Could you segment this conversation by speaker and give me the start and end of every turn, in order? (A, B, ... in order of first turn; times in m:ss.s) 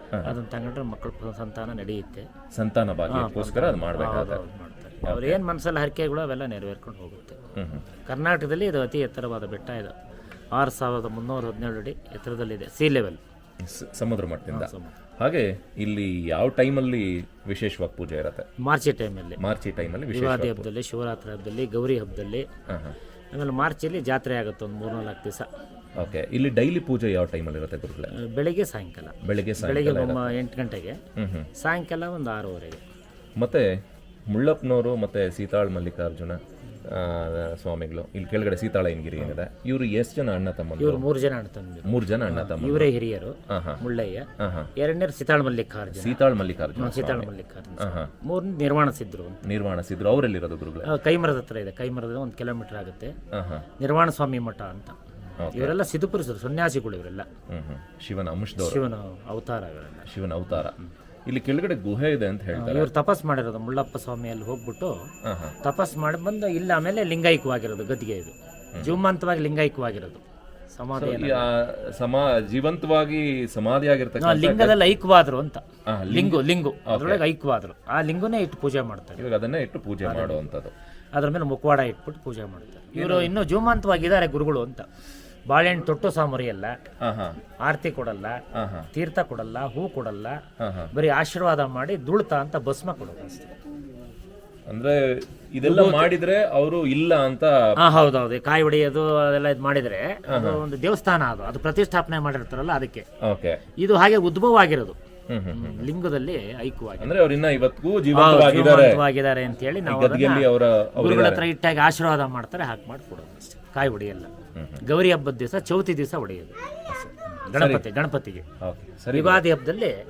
0:00.2-0:02.3 A
0:02.5-0:04.4 B
0:03.1-0:07.4 A
0:05.0-0:05.4 B
0:07.5-0:07.9 B
0:07.9-0:09.9 A
0:10.5-0:13.2 A
0:13.6-0:18.5 B
0:14.5-0:14.9 A
0:18.6-0:19.4 A
0:19.4-0:20.7 B
0:20.0-0:22.4 A
0:22.7-0:23.0 B
0:23.3-0:25.4 A
0:26.0-0:28.1 B
0:28.1-0:31.0 A
0:29.2-0:30.4 B
0:31.2-0:31.5 B
0:31.6-0:32.8 A
0:33.4-0:41.0 B
0:40.8-0:49.4 A
0:41.8-0:42.9 B
0:43.5-0:43.8 B
0:44.4-0:44.7 B
0:46.0-0:48.1 B
0:49.4-0:50.9 B
0:50.8-0:53.2 A
0:53.3-0:53.6 B
0:53.7-0:55.0 A
0:55.4-0:55.8 B
0:55.5-0:57.2 A
0:57.5-0:58.8 B
0:58.6-1:00.9 A
1:00.1-1:00.8 B
1:01.3-1:02.9 B
1:02.5-1:04.9 A
1:05.2-1:05.6 B
1:05.6-1:10.2 A
1:10.8-1:11.5 A
1:11.0-1:14.8 B
1:14.2-1:19.3 A
1:15.8-1:17.2 B
1:19.2-1:20.7 B
1:20.0-1:20.4 A
1:21.2-1:24.8 A
1:22.9-1:23.3 B
1:25.5-1:26.7 A
1:27.0-1:27.4 B
1:27.5-1:28.4 A
1:28.5-1:28.9 B
1:28.9-1:30.4 A
1:30.6-1:30.9 B
1:30.9-1:33.5 A
1:34.7-1:37.7 B
1:35.6-1:36.1 A
1:37.8-1:43.0 A
1:40.3-1:40.6 B
1:43.2-1:43.6 B
1:43.8-1:45.0 A
1:45.3-1:45.9 B
1:45.5-1:47.2 A
1:47.0-1:49.0 B
1:48.1-1:54.3 A
1:49.8-1:51.4 B
1:54.5-1:54.8 B
1:54.8-1:56.6 A
1:56.9-1:57.8 B
1:57.2-1:58.4 A
1:58.6-1:59.4 B
1:59.1-1:59.9 A